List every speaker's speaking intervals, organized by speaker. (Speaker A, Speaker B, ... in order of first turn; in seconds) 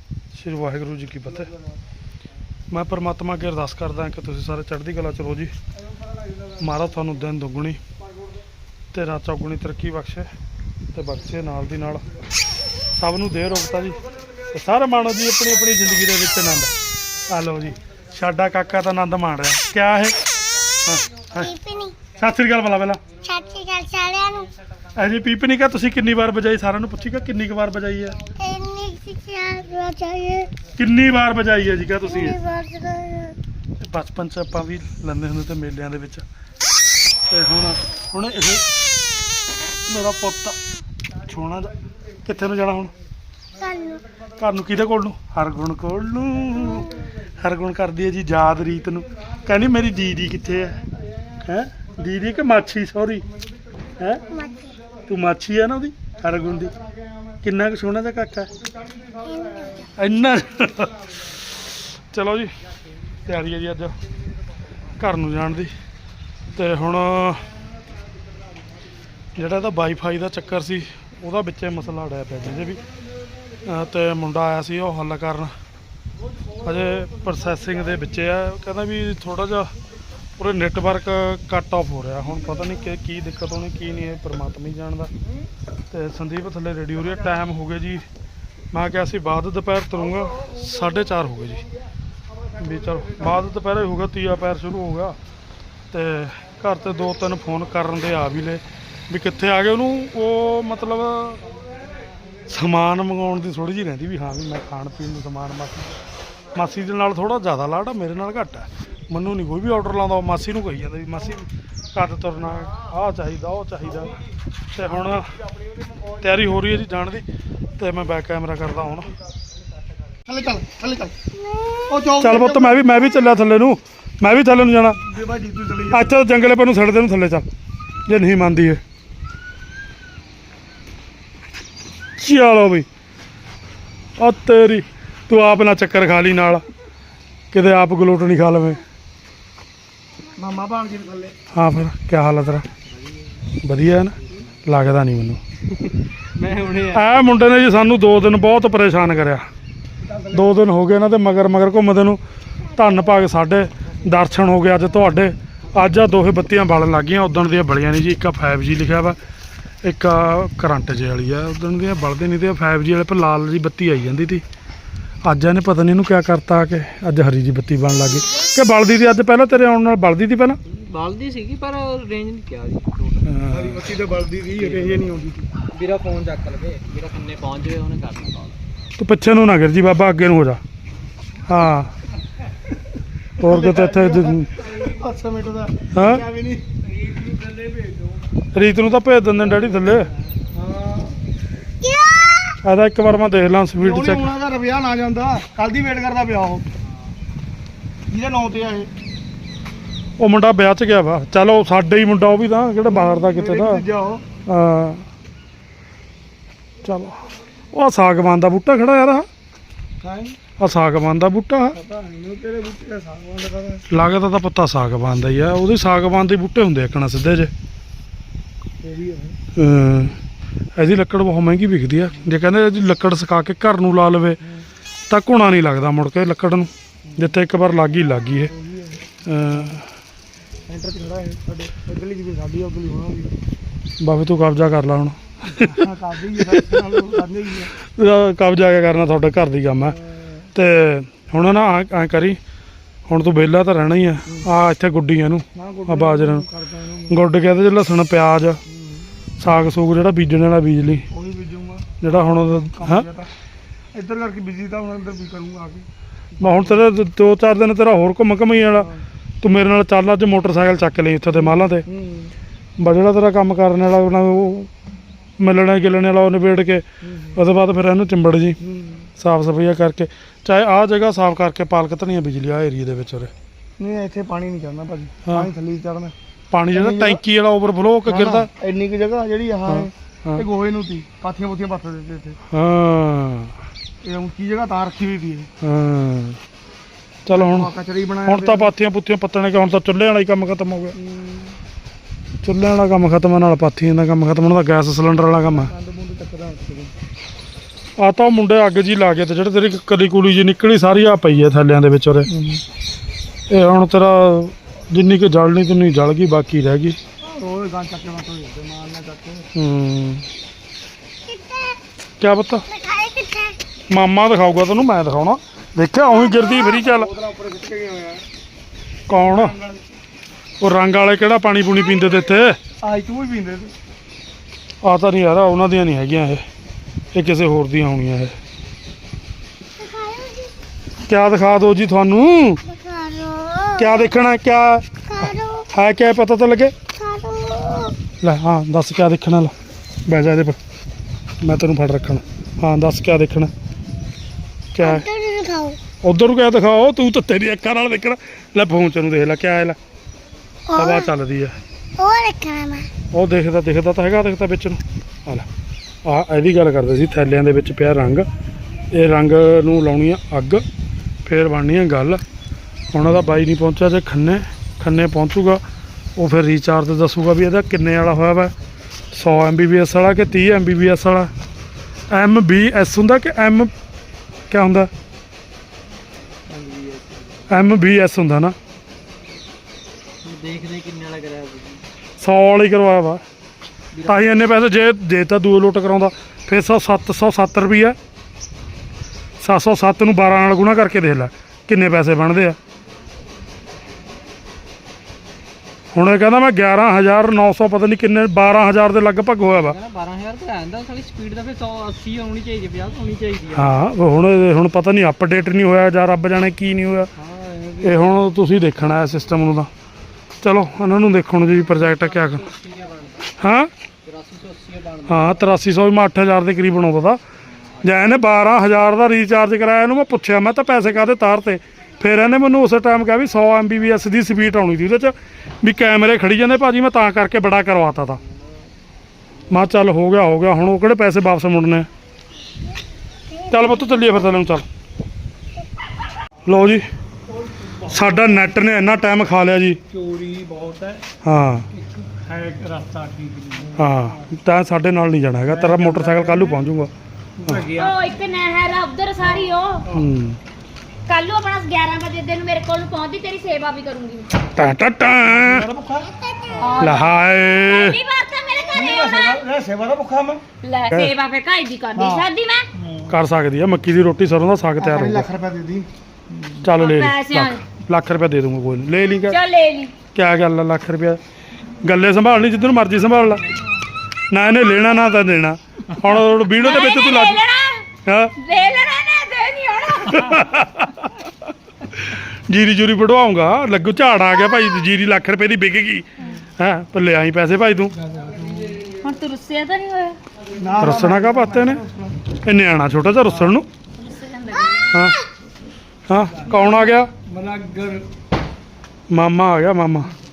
Speaker A: 0.3-1.5, 2.7-5.5, 6.6-7.8, 8.9-10.3, 10.9-12.0, 13.0-14.0, 14.5-16.7, 17.3-20.1, 20.8-21.5, 22.1-23.0, 24.9-28.2, 30.8-32.4, 33.8-36.2, 37.3-38.6, 39.9-40.5, 41.3-41.7, 42.2-42.9, 44.4-50.8, 51.4-53.2, 55.1-56.7, 57.4-58.5, 60.0-60.9, 62.1-62.5, 63.3-63.9, 65.0-65.7, 66.5-67.4, 69.4-72.8, 73.6-75.5, 76.6-79.7, 80.4-85.1, 85.9-88.0, 88.7-91.6, 92.6-95.2, 95.9-101.4, 102.5-105.9, 106.5-114.1, 114.7-115.3, 116.2-117.2, 117.8-119.1, 122.2-125.0, 125.9-127.5, 128.1-128.8, 132.2-132.8, 134.2-136.6, 137.5-138.8, 141.5-142.6, 143.6-145.4, 146.9-149.4, 150.3-152.2, 152.8-159.2, 159.8-164.4, 165.2-170.6, 173.2-173.7, 179.0-180.6, 181.5-181.9, 183.4-184.4, 185.9-186.2, 188.5-190.1, 192.6-194.2, 200.2-203.8, 204.5-205.0, 206.8-207.2, 207.7-209.2, 210.6-211.8, 213.9-217.5, 219.6-220.1, 220.8-224.4, 225.1-228.5, 229.2-229.8, 234.0-235.7, 237.9-240.0, 240.5-242.4, 243.1-246.4, 247.1-248.6, 249.4-251.0, 252.0-253.1, 256.4-258.9, 259.4-261.9, 262.8-264.7, 265.4-266.8, 267.4-268.6, 269.2-273.3, 276.5-278.5, 279.7-280.4, 282.5-283.5, 285.6-286.4, 287.3-287.7, 288.2-290.9, 292.4-295.6, 298.0-302.3, 303.5-307.0, 309.6-310.2, 312.2-312.6, 313.9-317.1, 319.1-319.5, 320.6-322.6, 324.8-326.4, 327.1-328.3, 331.1-332.6, 333.8-334.8, 335.7-336.7, 338.2-339.5, 340.1-340.6, 341.4-343.5, 344.8-345.1, 346.0-349.8, 350.7-351.6, 353.1-355.4, 356.0-358.2, 358.9-360.6, 361.2-362.2, 362.9-365.6, 366.1-368.5, 369.1-371.3, 372.1-373.7, 374.5-374.9, 377.5-378.6, 382.2-383.2, 384.0-388.0, 389.4-392.6, 395.9-399.8, 403.6-407.1, 407.8-409.7, 410.4-412.4, 413.4-413.7, 415.1-417.2, 417.8-428.2, 429.5-431.9, 433.5-434.6, 436.4-436.9, 437.8-439.8, 441.2-441.6, 443.8-446.9, 449.9-450.4, 454.6-455.6, 456.8-458.0, 463.1-465.2, 466.6-469.4, 470.1-471.2, 471.8-473.4, 474.3-477.4, 478.0-478.3, 480.1-480.9, 482.1-486.0, 486.6-487.9, 490.8-491.8, 492.4-493.7, 494.9-495.2, 496.1-497.1, 499.1-500.1
Speaker B: 21.4-22.1, 23.2-24.5, 28.4-30.5, 32.0-33.4, 43.6-44.0, 54.3-54.7, 59.3-59.9, 121.3-122.0, 191.8-192.6, 311.2-311.8, 312.7-313.6, 316.1-316.7, 329.8-330.5, 332.6-334.0, 335.1-335.7, 336.9-337.9, 344.8-345.9, 350.7-351.1, 352.0-352.9, 433.3-434.1, 456.2-456.6
Speaker C: 120.3-121.2, 121.9-123.0, 125.0-126.2, 140.4-141.3, 150.0-150.6, 173.5-175.5, 183.4-186.6, 190.5-191.2, 193.8-196.7, 198.1-198.9, 202.8-204.2, 210.0-210.4, 211.8-213.8, 218.8-219.4, 228.6-229.1, 230.7-233.3, 235.6-237.7, 239.8-240.3, 245.6-247.2, 251.1-253.3, 253.9-255.8, 256.4-256.8, 261.4-262.3, 267.0-267.4, 268.6-269.1, 273.8-276.1, 276.7-277.2, 278.1-282.4, 284.0-285.5, 287.3-288.7, 290.9-291.6, 295.4-296.9, 302.3-302.6, 307.4-309.5, 316.7-318.2, 319.1-319.8, 322.8-323.7, 445.5-446.6, 455.2-456.1, 458.7-460.4, 461.9-463.1, 464.8-465.9, 490.6-492.3, 497.3-498.0
Speaker D: 146.3-147.2, 170.7-174.0, 174.6-175.0, 175.7-178.6, 186.8-188.2, 189.6-190.0, 376.5-377.9, 380.2-381.8, 383.9-384.5, 399.4-403.8, 407.2-408.2, 411.8-413.2, 414.0-415.5, 439.9-441.0, 441.7-444.1, 447.5-447.9, 488.2-488.8
Speaker E: 447.7-449.9, 451.1-454.4, 456.6-459.4, 460.6-462.7, 466.7-467.6, 469.2-469.9, 476.6-477.9, 478.4-480.4, 488.9-490.2, 494.0-494.9, 496.5-496.8